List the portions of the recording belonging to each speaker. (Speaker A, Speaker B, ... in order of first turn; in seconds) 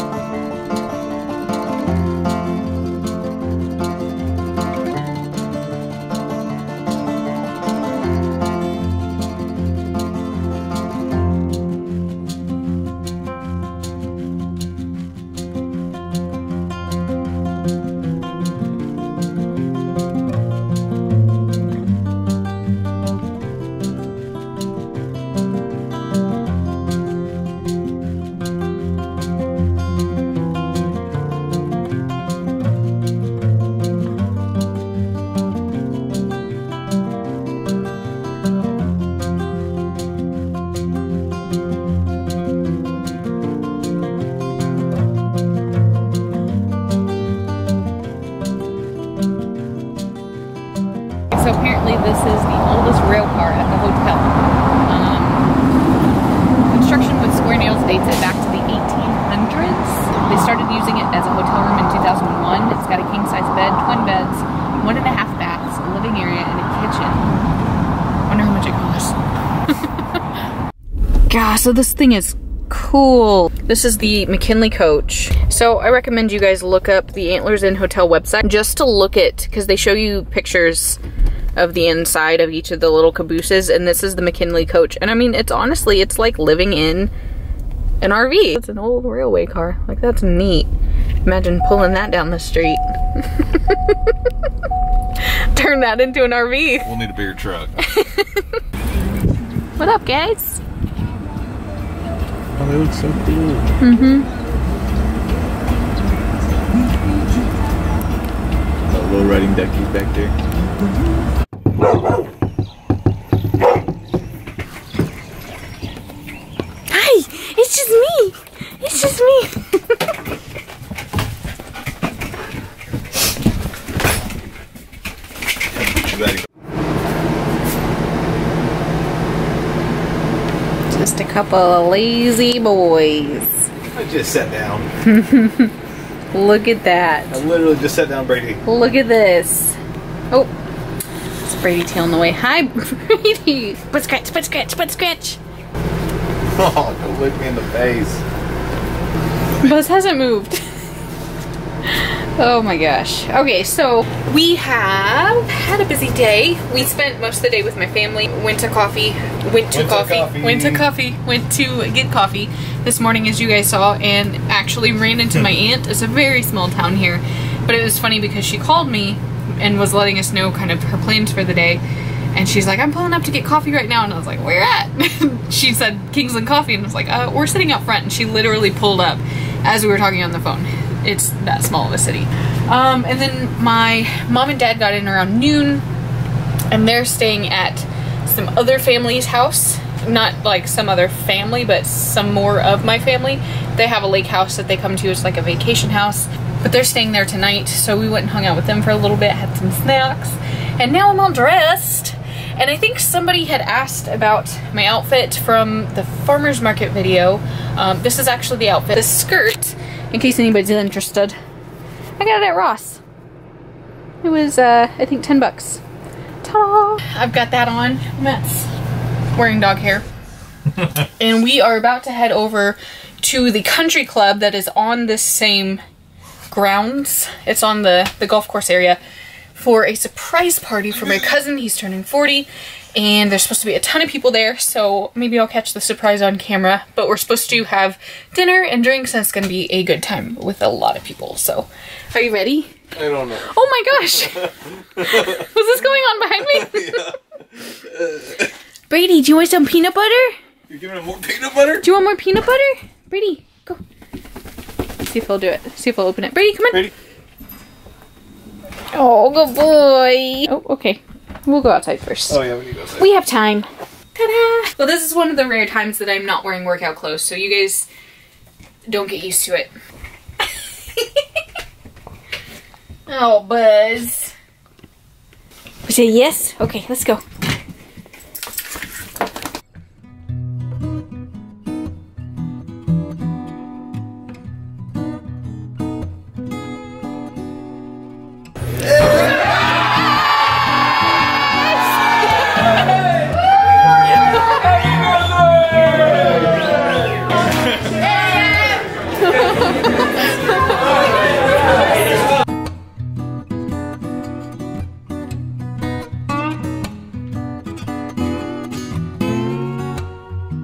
Speaker A: 51.3-55.5, 56.7-67.3, 68.3-70.0, 71.3-81.0, 81.5-87.1, 88.0-90.7, 91.2-94.1, 95.2-96.9, 97.8-98.6, 99.8-100.6, 103.8-104.3, 116.9-120.0, 130.9-133.7, 135.0-135.7, 136.3-137.4, 138.6-139.8, 141.4-145.4, 149.6-150.6, 151.8-185.8, 186.7-211.3, 212.2-213.0, 214.2-215.8, 216.4-218.7, 219.3-220.0, 220.9-225.8, 226.5-229.0, 229.5-242.7, 243.4-247.2, 248.9-250.3, 251.8-253.8, 255.0-256.9, 258.9-262.4, 263.0-267.9, 268.9-269.7, 270.4-271.4, 273.1-274.3, 275.9-277.2, 298.3-300.9
Speaker B: 96.8-97.7, 102.6-103.7, 108.9-110.3, 125.9-126.4, 133.9-134.9, 137.3-138.6, 146.5-148.2, 159.7-160.9, 242.9-243.5, 246.6-247.1, 247.7-248.3, 250.7-251.9, 262.3-263.1